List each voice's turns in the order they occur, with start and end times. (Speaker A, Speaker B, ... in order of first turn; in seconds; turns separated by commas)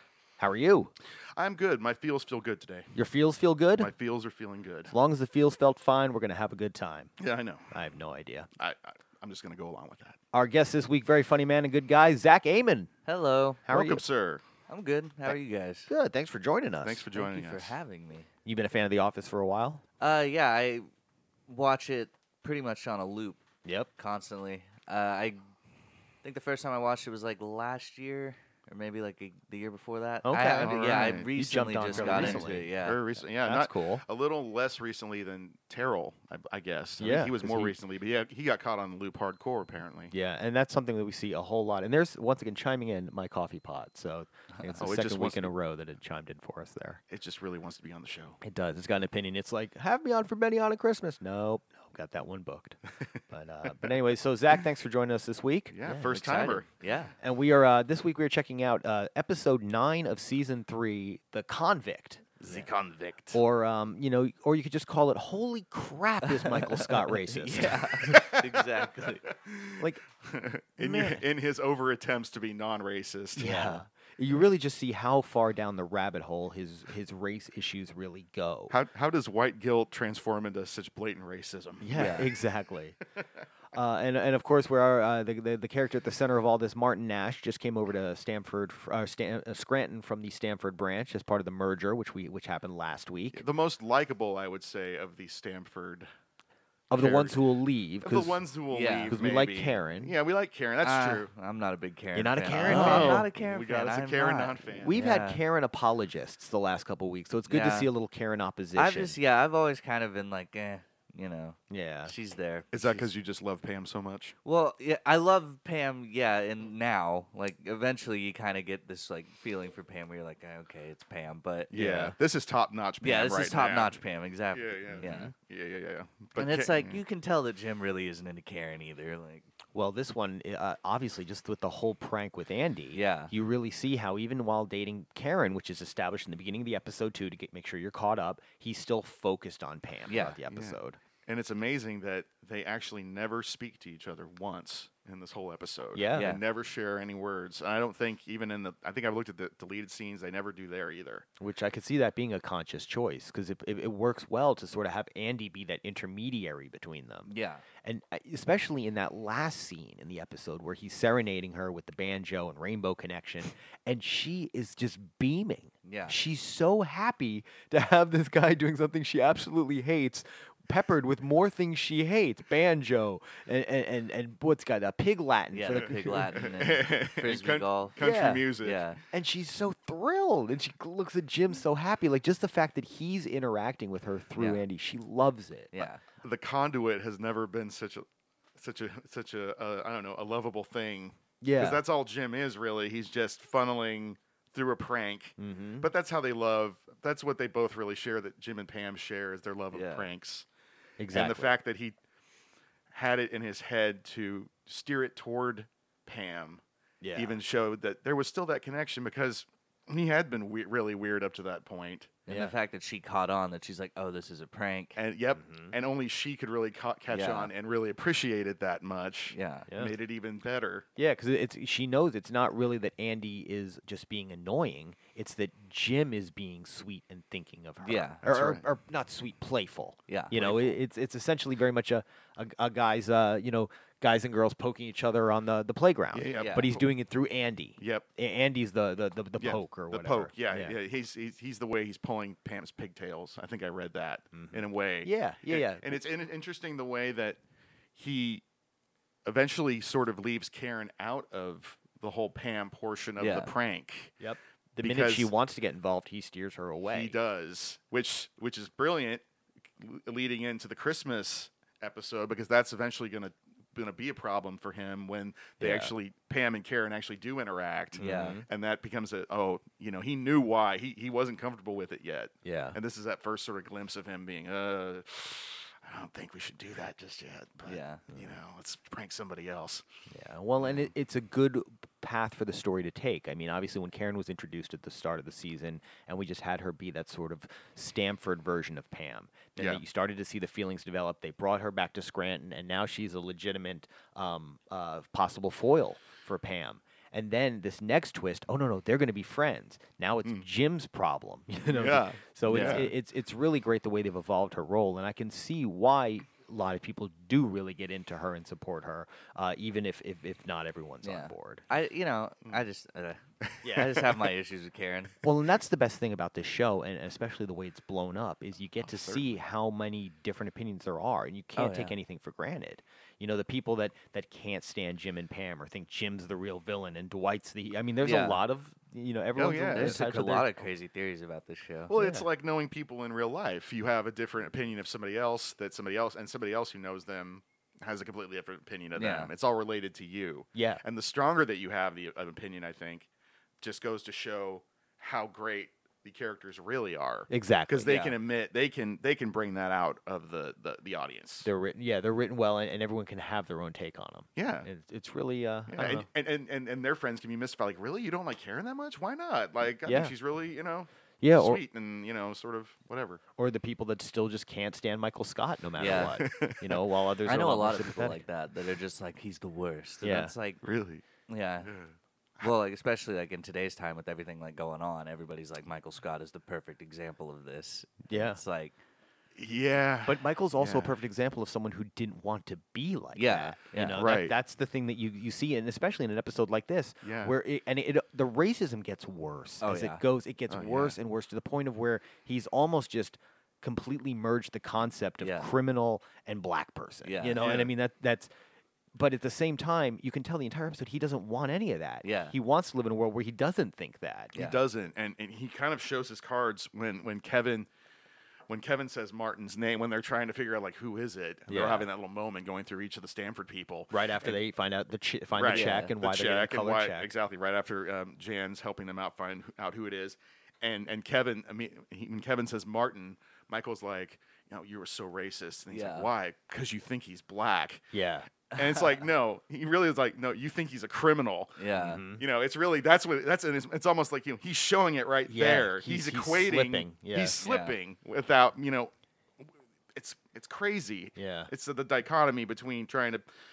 Speaker A: 0.4-0.9, Speaker B: 1.4-2.9, Speaker A: 2.9-3.9, Speaker B: 3.8-4.9, Speaker A: 4.9-7.1, Speaker B: 7.2-7.7, Speaker A: 7.7-8.5, Speaker B: 8.6-10.2, Speaker A: 10.3-12.9, Speaker C: 13.1-13.6, Speaker A: 13.7-14.0, Speaker B: 13.7-14.4, Speaker C: 14.7-15.9, Speaker A: 15.9-17.0, Speaker B: 16.8-17.7, Speaker C: 17.1-18.3, Speaker A: 18.4-19.8, Speaker C: 20.0-20.9, Speaker C: 21.5-23.4, Speaker A: 23.6-23.9, Speaker C: 24.0-25.5, Speaker C: 26.2-33.0, Speaker A: 30.2-32.7, Speaker B: 30.4-31.3, Speaker B: 31.8-40.1, Speaker A: 33.4-34.0, Speaker A: 37.0-37.7, Speaker A: 40.1-47.0, Speaker B: 44.8-45.5, Speaker B: 47.1-48.4, Speaker A: 48.4-56.2, Speaker B: 55.7-56.6, Speaker C: 56.1-57.1, Speaker A: 57.2-62.7, Speaker B: 62.4-63.4, Speaker A: 63.3-68.2, Speaker C: 66.2-69.2, Speaker B: 68.0-68.4, Speaker B: 69.2-73.7, Speaker A: 70.8-71.2, Speaker A: 73.3-78.7, Speaker B: 78.7-82.3, Speaker A: 81.8-83.0, Speaker C: 81.9-82.3, Speaker A: 83.7-93.4, Speaker B: 93.3-96.1, Speaker B: 96.9-97.4, Speaker A: 96.9-98.4, Speaker B: 98.0-101.3, Speaker C: 98.7-99.1, Speaker A: 99.1-100.1, Speaker C: 100.8-105.4, Speaker A: 102.1-103.3, Speaker B: 102.5-105.0, Speaker A: 104.8-109.2, Speaker C: 107.5-107.9, Speaker C: 108.8-113.1, Speaker A: 111.7-112.1, Speaker B: 112.7-114.3, Speaker C: 114.4-121.7, Speaker B: 121.7-124.0, Speaker A: 121.7-122.1, Speaker C: 123.0-125.3, Speaker B: 124.5-127.0, Speaker C: 126.3-129.4, Speaker A: 129.7-141.0, Speaker C: 132.9-133.3, Speaker C: 140.1-140.4, Speaker B: 140.5-151.2, Speaker A: 145.9-146.3, Speaker C: 146.1-146.4, Speaker A: 151.4-176.4, Speaker C: 157.3-157.6, Speaker C: 165.8-166.2, Speaker C: 175.5-178.0, Speaker B: 175.7-178.8, Speaker A: 178.0-178.5, Speaker C: 178.6-179.0, Speaker A: 179.1-185.8, Speaker C: 184.4-184.6, Speaker C: 185.7-186.0, Speaker B: 186.2-188.0, Speaker B: 188.6-200.4, Speaker A: 191.4-191.8, Speaker A: 195.4-195.9, Speaker C: 199.7-200.1, Speaker A: 201.0-201.5, Speaker B: 201.1-202.0, Speaker B: 202.9-206.6, Speaker A: 207.0-207.4, Speaker B: 207.1-212.2, Speaker C: 212.3-215.0, Speaker A: 212.3-212.5, Speaker B: 214.9-220.8, Speaker A: 215.4-215.7, Speaker C: 217.1-217.5, Speaker C: 219.3-219.7, Speaker A: 220.9-240.8, Speaker C: 227.8-228.2, Speaker B: 228.2-228.7, Speaker C: 230.1-230.7, Speaker B: 230.3-230.7, Speaker B: 236.1-236.9, Speaker C: 236.3-236.7, Speaker B: 237.8-238.1, Speaker B: 239.4-247.4, Speaker A: 244.3-246.0, Speaker B: 247.9-248.4, Speaker B: 249.2-254.1, Speaker C: 253.2-253.5, Speaker A: 254.2-257.1, Speaker B: 254.8-255.3, Speaker B: 256.9-259.2, Speaker B: 259.8-279.8, Speaker A: 265.6-265.9, Speaker A: 268.0-268.5, Speaker C: 268.0-268.4, Speaker A: 272.4-272.8, Speaker C: 277.6-278.0, Speaker A: 280.1-311.6, Speaker B: 280.6-280.9, Speaker B: 301.7-302.9, Speaker C: 302.5-302.9, Speaker C: 311.0-315.2, Speaker A: 313.6-314.0, Speaker A: 315.2-330.5, Speaker B: 318.8-319.4, Speaker C: 321.6-321.9, Speaker C: 328.0-328.4, Speaker B: 329.4-330.0, Speaker C: 329.7-331.9, Speaker B: 331.9-343.1, Speaker A: 332.0-332.2, Speaker C: 338.9-339.3, Speaker A: 340.5-340.8, Speaker B: 343.6-351.5, Speaker A: 347.3-347.9, Speaker C: 347.8-348.1, Speaker A: 351.4-356.1, Speaker B: 354.4-354.7, Speaker B: 355.7-363.2, Speaker A: 359.8-360.1, Speaker A: 361.2-361.6, Speaker A: 363.4-368.2, Speaker C: 365.8-366.2, Speaker B: 365.8-366.8, Speaker C: 367.2-370.6, Speaker A: 370.0-370.3, Speaker B: 370.6-371.0, Speaker C: 371.3-371.7, Speaker B: 371.6-372.5, Speaker C: 372.4-378.8, Speaker A: 378.1-378.4, Speaker B: 379.4-381.0, Speaker A: 380.1-398.3, Speaker C: 383.1-384.1, Speaker B: 384.0-384.3, Speaker B: 387.0-387.4, Speaker C: 389.6-390.0, Speaker B: 390.5-391.0, Speaker C: 395.2-395.5, Speaker C: 397.0-397.4, Speaker B: 397.4-397.7, Speaker A: 398.9-404.3, Speaker C: 402.0-402.3, Speaker B: 404.3-407.7, Speaker B: 408.5-414.4, Speaker A: 411.5-411.9, Speaker A: 413.9-417.1, Speaker B: 415.4-427.9, Speaker C: 415.5-415.9, Speaker C: 425.7-426.1, Speaker A: 427.9-428.3, Speaker B: 428.5-438.9, Speaker C: 428.6-428.9, Speaker C: 431.6-432.0, Speaker A: 431.8-432.2, Speaker A: 435.3-437.4, Speaker C: 437.4-437.8, Speaker B: 439.9-443.2, Speaker A: 441.2-441.5